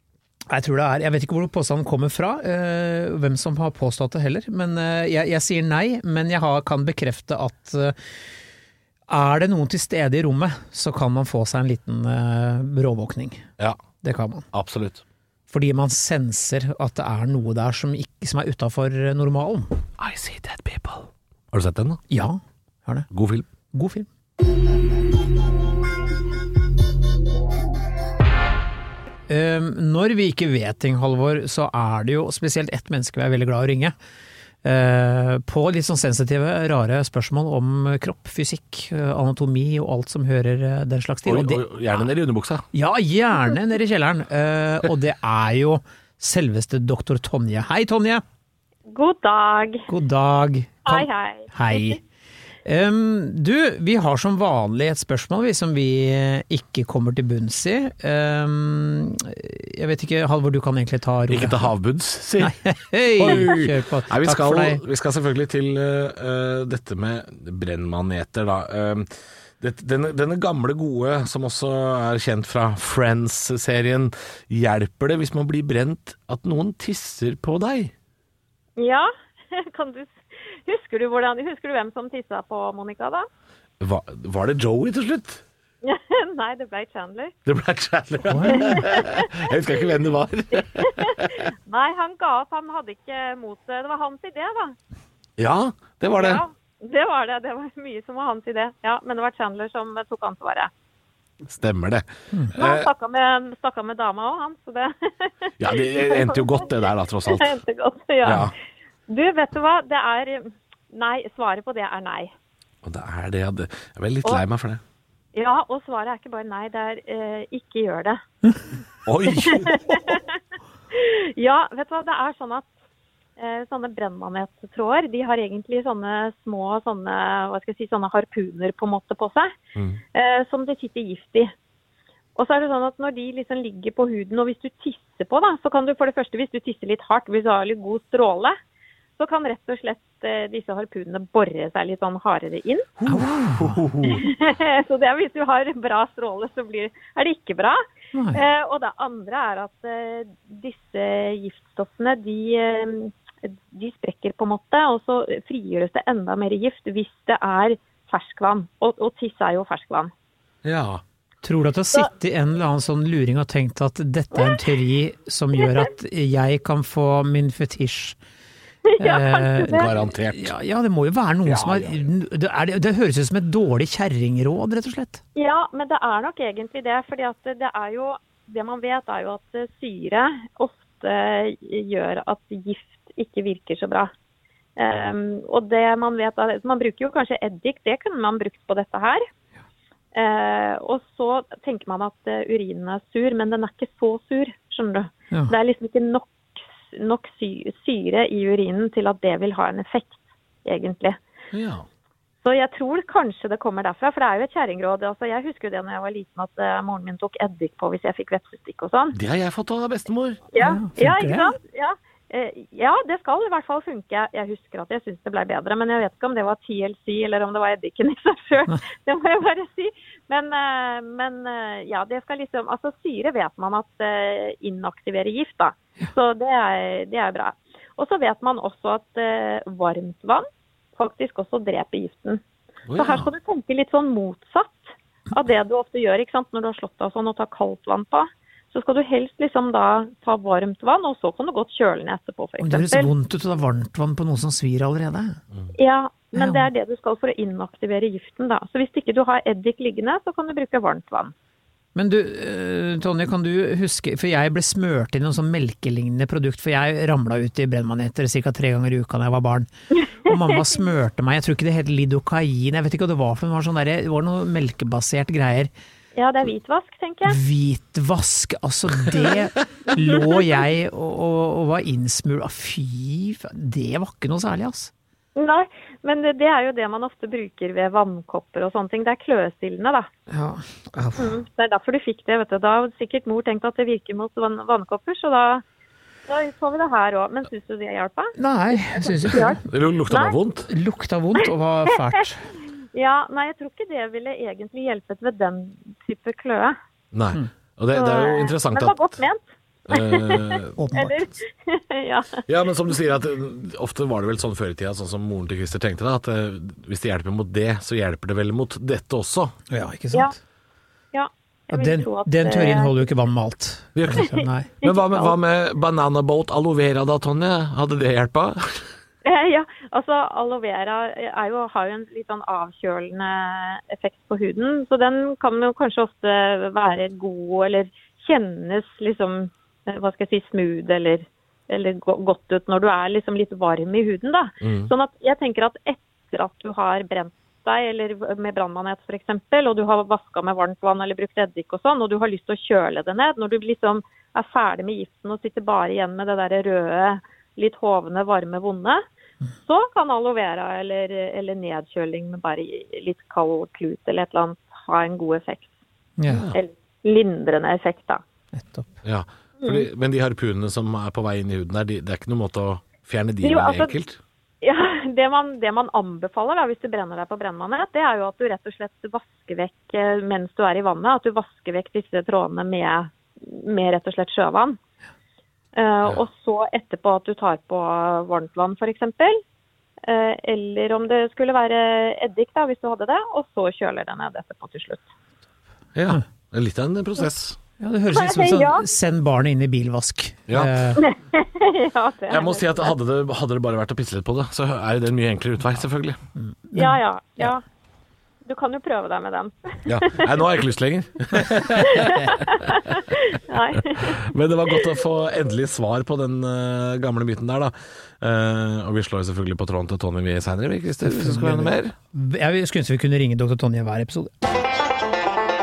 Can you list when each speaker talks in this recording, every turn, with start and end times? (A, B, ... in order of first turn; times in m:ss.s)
0:00.5-0:08.0 A
0:09.1-0:13.4 A
0:14.0-0:14.5 A
0:14.5-0:15.0 B
0:15.5-0:19.8 A
0:20.0-0:22.0 B
0:22.1-0:23.1 A
0:23.1-0:23.5 B
0:23.7-0:24.1 A
0:29.3-0:34.0 A
0:34.6-0:41.7 A
0:41.3-0:42.7 B
0:42.7-0:48.2 A
0:48.9-0:49.9 C
0:49.9-0:52.0 A
0:50.8-0:52.0 C
0:52.6-1:01.7 A
1:01.3-1:02.6 B
1:02.4-1:04.8 A
1:03.2-1:09.1 B
1:09.6-1:17.9 B
1:18.8-1:23.3 C
1:23.8-1:25.4 B
1:25.8-1:27.3 C
1:27.5-1:31.4 B
1:28.3-1:28.8 A
1:28.5-1:29.5 C
1:30.6-1:34.8 C
1:35.4-1:36.4 B
1:36.1-1:40.7 C
1:41.4-1:42.9 B
1:42.6-1:46.7 C
1:45.6-1:47.5 B
1:47.2-1:48.5 C
1:48.2-1:48.5 B
1:49.1-1:52.3 C
1:52.8-1:54.8 B
1:55.3-1:58.2 C
1:59.0-1:59.8 B
1:59.3-2:00.4 C
2:00.9-2:02.7 C
2:03.4-2:09.6 C
2:09.8-2:10.0 B
2:10.1-2:11.5 C
2:12.4-2:18.6 C
2:19.2-2:22.9 C
2:23.0-2:24.3 B
2:23.1-2:23.8 A
2:24.0-2:27.8 C
2:28.1-2:28.4 A
2:28.3-2:40.1 C
2:40.6-2:41.0 B
2:41.4-2:48.2 A
2:48.9-2:49.9 C
2:49.0-2:55.2 A
2:49.7-2:50.5 B
2:51.4-2:52.1 B
2:55.4-3:04.1 C
3:04.8-3:09.3 C
3:10.1-3:21.2 C
3:21.5-3:21.8 B
3:22.4-3:29.2 C
3:29.1-3:30.4 B
3:30.5-3:52.4 C
3:30.6-3:31.5 A
3:52.9-3:53.3 B
3:53.0-4:03.1 C
4:02.6-4:05.4 A
4:05.8-4:11.3 C
4:06.4-4:06.7 A
4:12.0-4:19.7 A
4:20.2-4:25.7 A
4:26.2-4:27.4 C
4:27.3-4:34.9 A
4:35.4-4:40.1 C
4:40.3-4:41.4 A
4:41.2-4:45.6 C
4:46.3-4:48.3 C
4:48.4-4:49.6 A
4:48.9-4:50.4 C
4:49.6-4:50.7 B
4:50.7-4:52.5 A
4:52.9-4:56.8 C
4:57.1-4:59.2 B
4:57.9-5:02.4 C
4:59.9-5:00.7 B
5:00.8-5:01.3 A
5:02.5-5:09.5 B
5:09.7-5:10.4 A
5:11.1-5:12.9 C
5:11.7-5:14.7 A
5:14.0-5:18.9 B
5:14.8-5:15.3 C
5:19.2-5:49.0 C
5:34.6-5:34.9 B
5:49.7-5:55.7 C
5:56.2-5:56.5 A
5:56.3-5:56.6 B
5:56.5-5:58.2 C
5:58.6-5:58.9 A
5:59.0-6:04.2 B
5:59.6-5:59.9 C
6:03.4-6:03.9 C
6:04.6-6:14.8 C
6:15.8-6:19.4 C
6:20.0-6:25.0 C
6:26.0-6:27.6 B
6:27.8-6:31.0 A
6:28.1-6:28.9 C
6:30.5-6:31.0 B
6:31.0-6:32.9 C
6:32.3-6:36.2 B
6:36.4-6:37.5 A
6:36.8-6:37.6 C
6:38.4-6:40.5 C
6:39.9-6:42.9 B
6:41.8-6:44.2 C
6:43.8-6:52.0 B
6:51.0-6:54.3 A